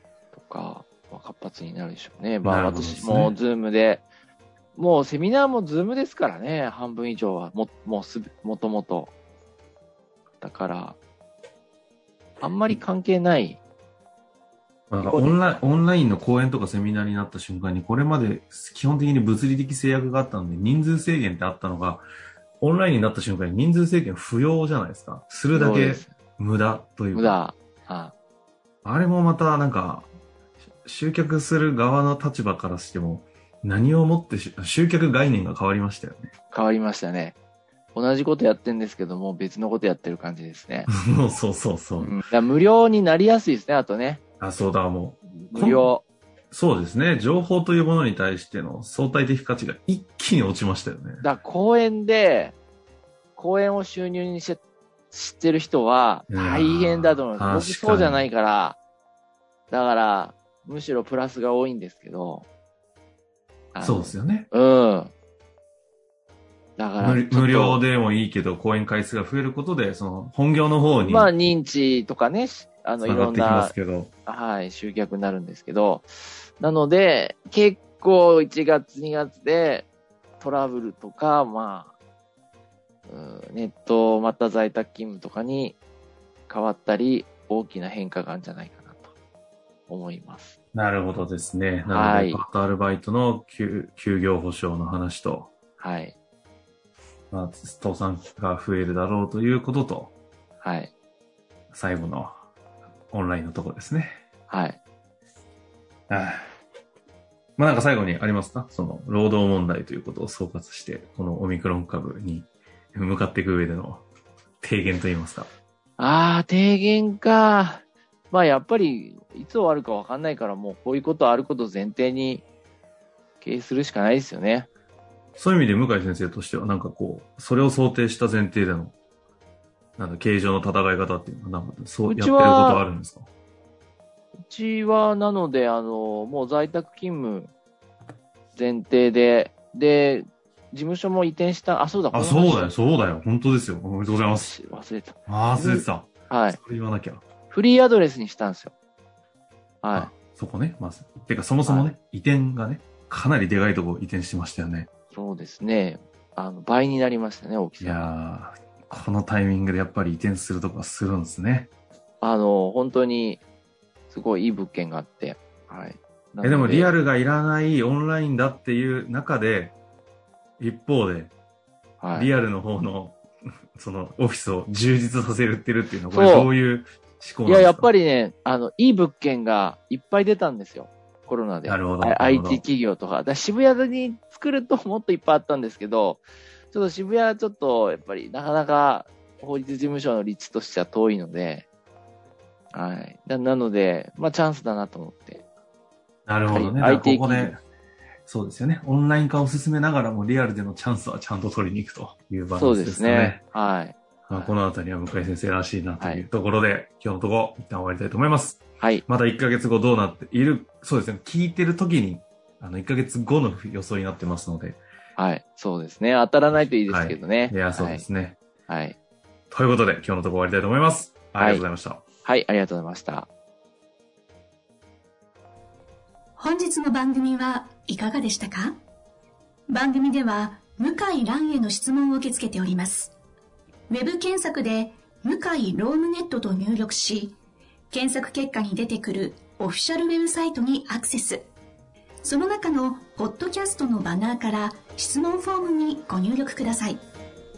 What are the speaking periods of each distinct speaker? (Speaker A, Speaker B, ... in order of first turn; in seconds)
Speaker A: 0.3-4.1, 4.8-9.1, 10.4-11.0, 12.4-13.6, 15.0-15.4, 25.5-26.1, 27.1-28.1, 36.5-37.4, 37.9-40.9, 42.0-44.2, 45.5-46.0, 51.2-52.6, 53.4-58.8, 59.7-62.5, 63.7-65.1, 66.8-67.8, 71.0-73.8, 74.3-79.9, 80.4-81.9, 83.1-85.8, 86.5-89.1, 89.9-90.6, 91.9-92.4, 95.8-96.2, 100.6-100.9, 104.5-104.8, 116.0-122.4, 123.4-124.7, 132.1-132.8, 134.5-137.5, 138.5-142.7, 144.3-146.6, 147.5-148.7, 149.8-150.1, 151.7-151.9, 155.1-158.1, 162.2-163.4, 164.1-167.0, 172.0-172.3, 176.1-176.5, 177.5-191.7, 192.7-195.4, 196.5-197.6, 202.6-204.6, 206.0-206.3, 215.2-218.1, 218.7-219.0, 221.4-221.7, 222.2-223.3
Speaker B: 2.4-3.4, 14.9-22.1, 22.6-27.4, 28.8-30.1, 30.8-36.3, 41.0-42.2, 44.4-45.9, 46.5-51.2, 56.3-58.3, 63.8-64.5, 67.0-71.3, 73.0-74.1, 90.7-95.5, 97.3-100.1, 101.7-102.4, 103.1-104.2, 106.1-106.5, 107.6-114.1, 114.6-115.5, 125.4-129.0, 130.0-133.3, 142.1-144.5, 145.3-147.2, 149.9-154.9, 157.8-161.7, 166.4-169.8, 170.6-171.3, 172.1-173.2, 173.8-177.9, 181.7-182.6, 196.3-197.6, 198.3-203.4, 204.3-214.8, 216.7-218.4, 219.5-222.0
Speaker C: 226.4-228.8, 229.7-233.1, 233.9-237.4, 237.9-241.5, 242.2-247.0